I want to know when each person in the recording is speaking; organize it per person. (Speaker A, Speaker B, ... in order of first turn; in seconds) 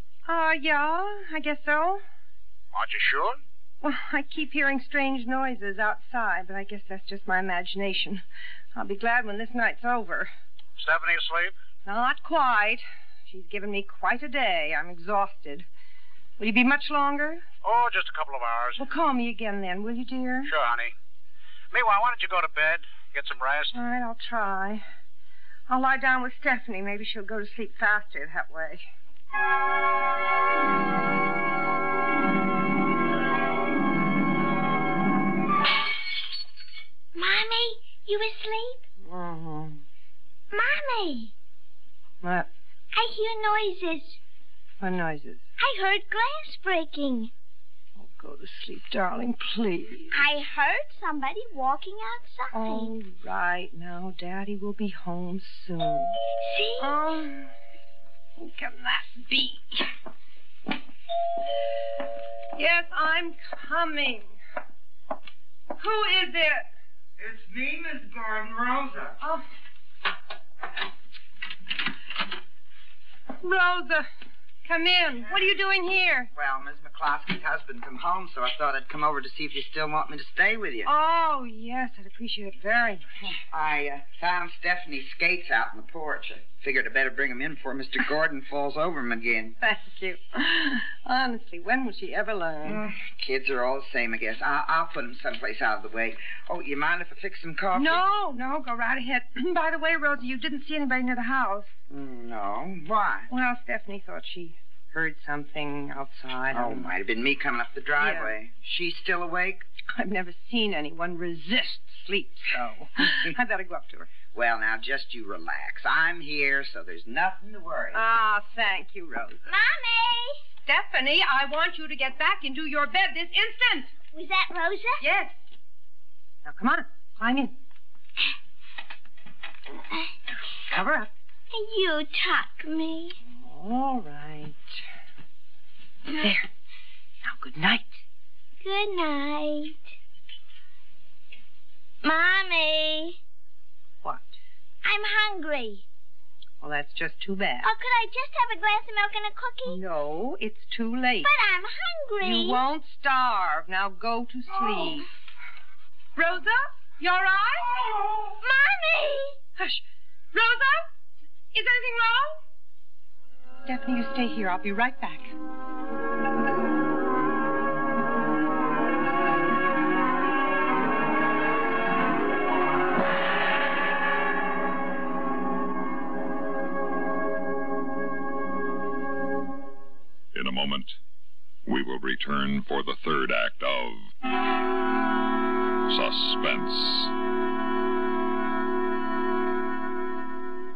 Speaker A: 0.2-2.0, 3.8-10.3, 11.8-15.7, 16.4-17.4, 18.8-20.5, 23.7-24.8, 25.7-28.8, 39.0-39.8, 42.2-42.5, 44.8-45.4, 48.0-50.2, 52.5-56.2, 56.8-57.5, 58.4-59.9, 62.5-64.3, 65.8-66.7, 69.2-69.4, 73.4-74.1, 74.6-76.3, 80.8-83.1, 89.6-92.8, 97.7-101.7, 103.3-106.9, 108.0-108.3, 109.9-114.2, 117.9-119.4, 120.6-123.9, 125.0-125.3, 126.4-127.5, 130.7-131.1, 133.3-134.6, 136.1-136.4, 137.2-138.0, 144.0-144.3, 146.6-147.7, 149.7-151.3, 152.2-155.1, 156.2-157.8, 159.6-160.9, 161.5-162.4, 163.6-165.3
Speaker B: 2.7-3.4, 10.8-11.5, 17.6-18.8, 20.5-20.9, 21.7-23.7
Speaker C: 37.1-38.8, 40.5-41.3, 42.9-44.2, 45.6-47.3, 50.1-52.9, 56.4-57.0, 119.4-120.4, 124.1-125.0, 131.5-133.2, 138.6-139.8, 142.0-143.2, 144.8-145.8, 147.6-149.8, 151.2-152.6, 158.4-159.4
Speaker D: 67.2-69.2, 76.3-80.9, 83.5-89.5, 92.6-98.0, 101.9-103.3, 106.5-109.6, 114.3-118.1
Speaker E: 180.3-181.0, 181.6-184.1, 185.9-187.1